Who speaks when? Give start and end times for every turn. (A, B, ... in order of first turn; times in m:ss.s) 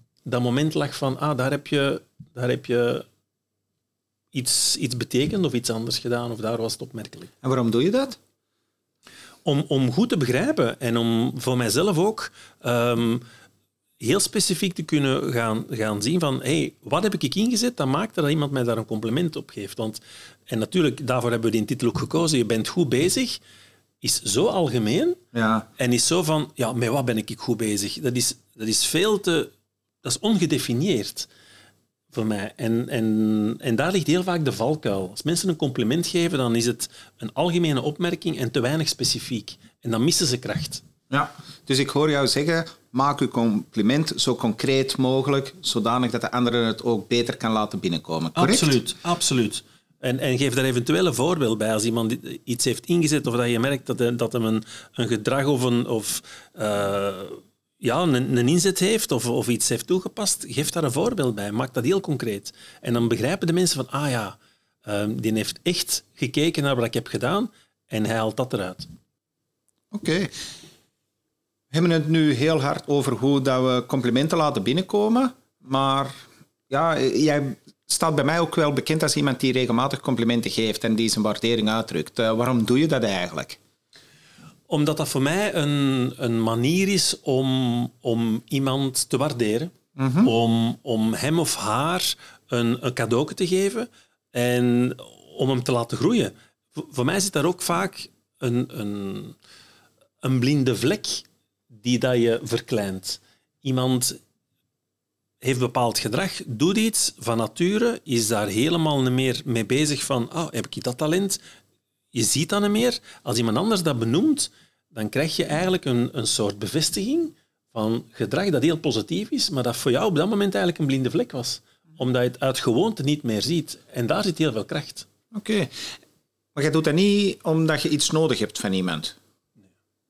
0:00.2-0:03.0 A
0:04.3-0:07.3 A
0:07.4-0:08.2 B
0:09.4-0:13.2 A
0:14.0-0:23.4 A
0:24.0-0:25.2 A
0:25.3-0:25.7 B
0:25.8-0:29.5 A
0:30.0-0:31.3 A
0:32.1-0:40.8 A
0:41.1-0:48.8 B
0:48.4-1:08.8 A
1:09.9-1:10.3 B
1:11.7-1:23.6 B
1:24.7-1:39.4 A
1:30.0-1:30.3 B
1:40.2-1:44.2 A
1:45.4-1:51.4 A
1:52.1-2:05.0 A
2:05.3-2:05.8 B
2:06.5-2:09.1 B